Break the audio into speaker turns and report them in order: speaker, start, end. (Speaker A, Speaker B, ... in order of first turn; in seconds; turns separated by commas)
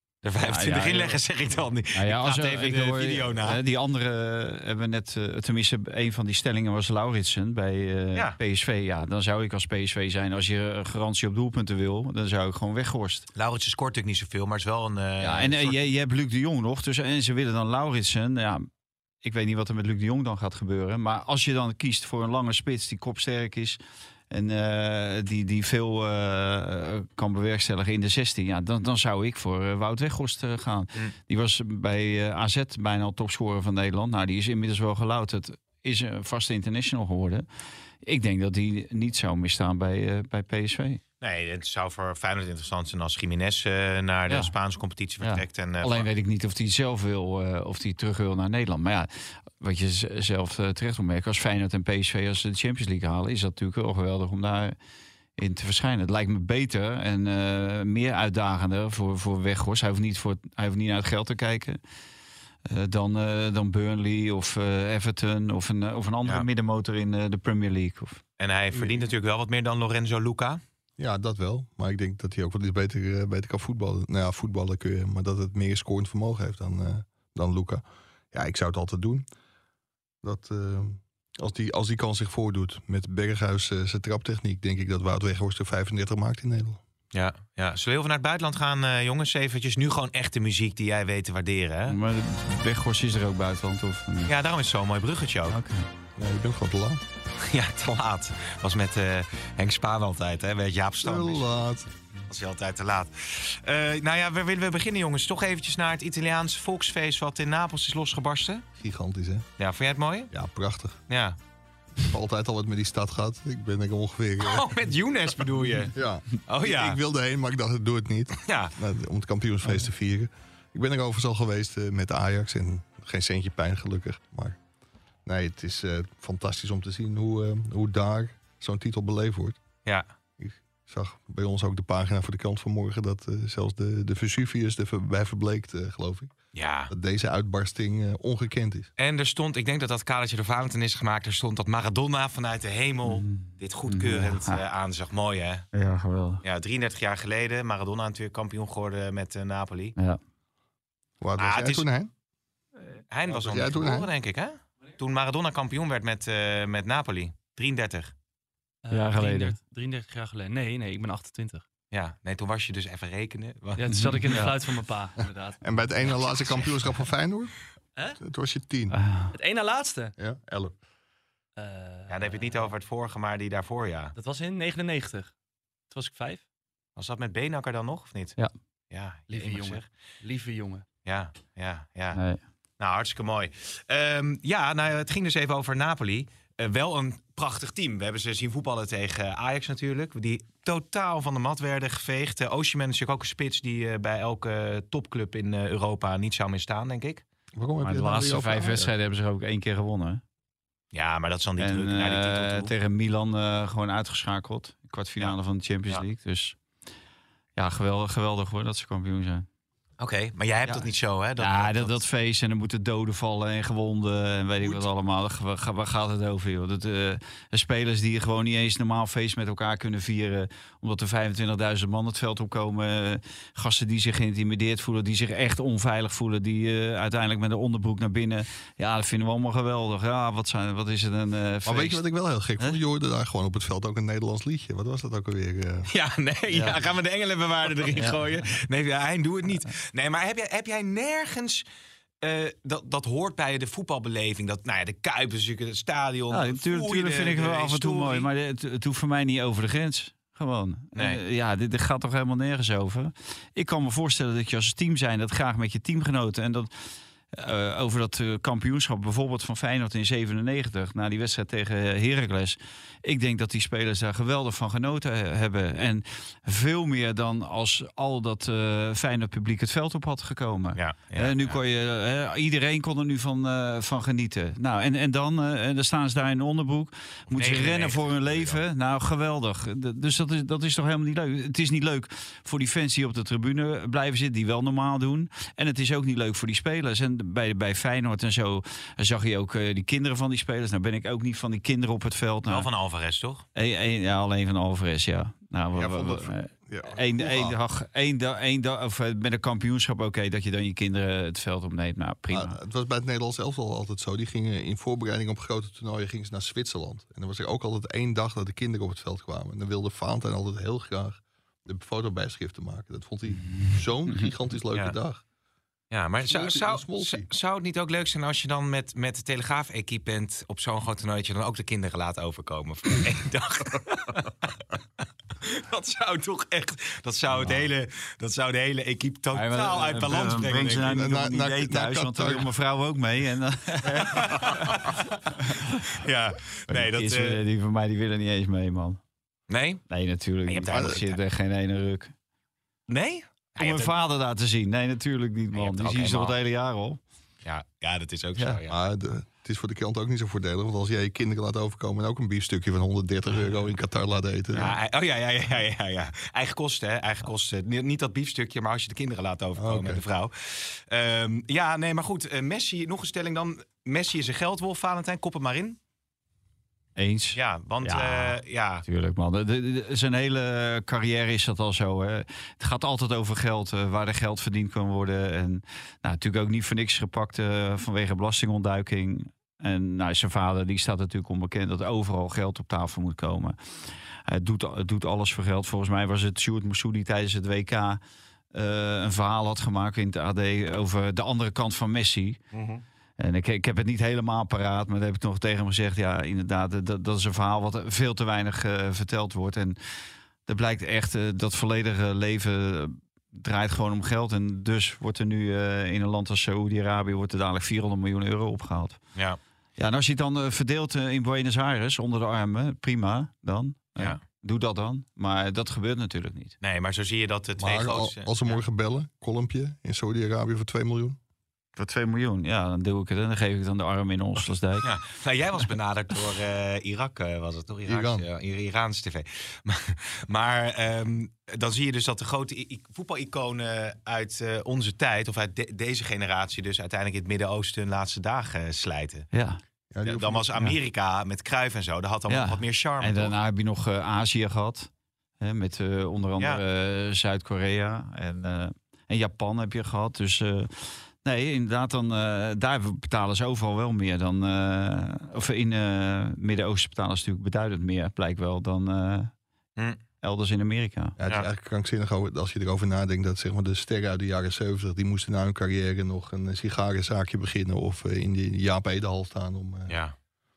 Speaker A: 0.2-3.6, Speaker B: 0.3-1.2, Speaker B: 1.9-13.3, Speaker A: 13.3-15.8, Speaker B: 15.2-18.7, Speaker B: 19.2-23.8, Speaker B: 24.3-37.4, Speaker B: 38.0-41.0, Speaker A: 41.2-46.1, Speaker B: 45.2-49.1, Speaker B: 49.6-54.8, Speaker B: 55.4-61.8, Speaker B: 62.6-68.2, Speaker A: 68.4-70.6, Speaker C: 71.0-79.2, Speaker C: 80.2-86.8, Speaker A: 87.1-92.0, Speaker B: 91.9-94.3, Speaker A: 94.3-95.6, Speaker B: 95.5-95.9, Speaker C: 96.2-97.0, Speaker A: 97.4-101.5, Speaker C: 101.0-101.9, Speaker A: 102.3-108.6, Speaker C: 108.8-109.5, Speaker A: 109.6-110.3, Speaker C: 110.3-111.0, Speaker A: 111.1-111.4, Speaker C: 112.0-114.7, Speaker A: 114.4-115.9, Speaker C: 115.9-124.6, Speaker A: 116.5-117.0, Speaker A: 118.4-118.7, Speaker C: 125.2-129.6, Speaker C: 130.4-136.3, Speaker A: 136.5-136.9, Speaker C: 136.9-138.9, Speaker A: 139.0-145.7, Speaker B: 143.1-144.6, Speaker B: 145.7-146.4, Speaker A: 146.4-149.9, Speaker C: 151.2-152.1, Speaker A: 151.4-151.8, Speaker A: 153.1-158.1, Speaker C: 153.3-154.1, Speaker D: 158.8-161.6, Speaker B: 158.9-159.6, Speaker A: 161.9-164.4, Speaker D: 163.8-166.4, Speaker B: 163.9-164.5, Speaker C: 165.6-167.5, Speaker C: 168.2-168.9, Speaker B: 168.9-169.3, Speaker D: 169.3-170.1, Speaker C: 170.2-170.8, Speaker D: 171.6-172.6, Speaker A: 172.1-174.1, Speaker D: 174.1-175.3, Speaker D: 175.9-176.4, Speaker A: 176.9-178.4, Speaker A: 178.9-179.8, Speaker D: 179.3-180.8, Speaker A: 181.0-182.2, Speaker B: 182.1-182.4, Speaker A: 182.8-197.2, Speaker C: 197.5-198.9, Speaker B: 197.8-200.2, Speaker A: 200.9-202.7, Speaker B: 201.6-206.6, Speaker B: 207.6-209.4, Speaker A: 210.0-212.0, Speaker B: 211.4-232.0, Speaker C: 231.6-235.9, Speaker A: 235.9-241.6, Speaker B: 236.5-236.8, Speaker A: 242.2-248.3, Speaker B: 246.3-256.7, Speaker A: 250.9-251.2, Speaker B: 257.3-292.7, Speaker A: 270.8-271.6, Speaker A: 277.3-278.6, Speaker A: 292.5-293.4, Speaker B: 293.5-302.6, Speaker C: 295.7-297.6, Speaker C: 302.3-315.2, Speaker B: 313.4-314.3, Speaker A: 315.9-324.5, Speaker C: 316.2-317.3, Speaker A: 325.4-331.0, Speaker B: 327.3-327.7, Speaker B: 329.3-334.8, Speaker C: 330.6-332.5, Speaker A: 334.0-335.0, Speaker B: 335.3-335.8, Speaker A: 335.9-337.4, Speaker B: 336.7-339.0, Speaker A: 339.5-339.8, Speaker B: 339.9-342.1, Speaker A: 340.5-341.2, Speaker C: 340.7-341.0, Speaker A: 342.9-343.9, Speaker B: 343.6-347.0, Speaker A: 345.5-346.3, Speaker A: 347.4-348.8, Speaker C: 348.7-354.7, Speaker A: 354.5-365.8, Speaker C: 359.6-360.0, Speaker B: 366.9-383.6, Speaker A: 367.3-368.8, Speaker B: 384.3-388.0, Speaker B: 388.5-392.4, Speaker A: 392.5-392.8, Speaker B: 393.2-399.8, Speaker B: 400.4-409.0, Speaker B: 409.8-416.5, Speaker A: 416.6-418.6, Speaker C: 417.6-421.2, Speaker B: 421.8-424.9, Speaker A: 424.8-439.3, Speaker C: 427.9-428.2, Speaker B: 439.3-439.6, Speaker C: 439.9-440.5, Speaker A: 440.0-443.4, Speaker B: 442.3-444.9, Speaker B: 445.4-459.3, Speaker B: 460.2-461.1, Speaker C: 461.2-470.0, Speaker A: 469.9-470.1